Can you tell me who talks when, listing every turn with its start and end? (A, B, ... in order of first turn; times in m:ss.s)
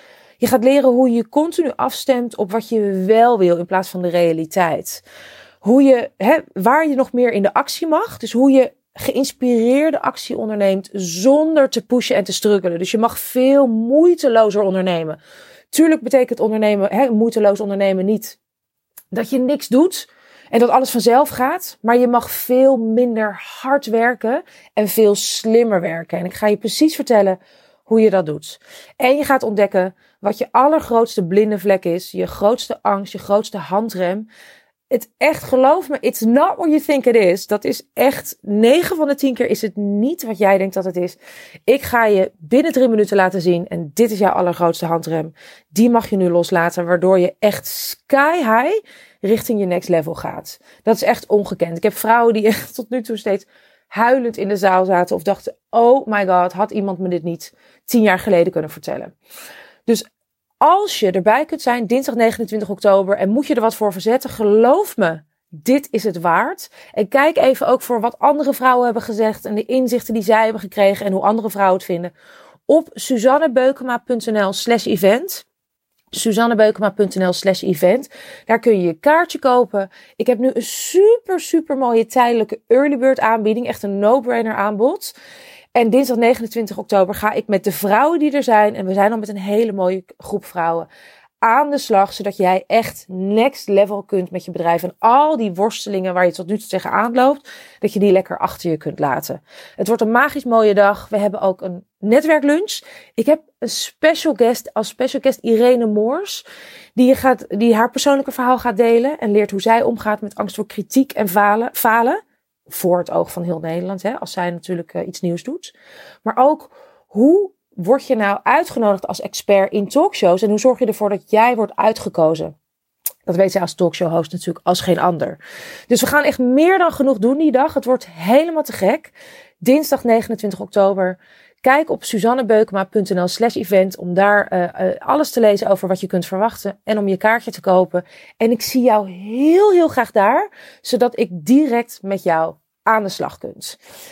0:00.4-0:05.0 A
0:05.6-0:15.2 A
0:15.7-0:18.4 A
0:19.1-0:34.3 A
0:34.9-0:59.1 A
1:00.6-1:12.1 A
1:12.7-1:15.4 A
1:16.1-1:25.1 A
1:25.7-1:30.9 A
1:31.4-1:46.4 A
1:47.0-1:55.7 A
1:56.2-2:02.5 A
2:03.2-2:05.4 A
2:05.9-2:23.8 A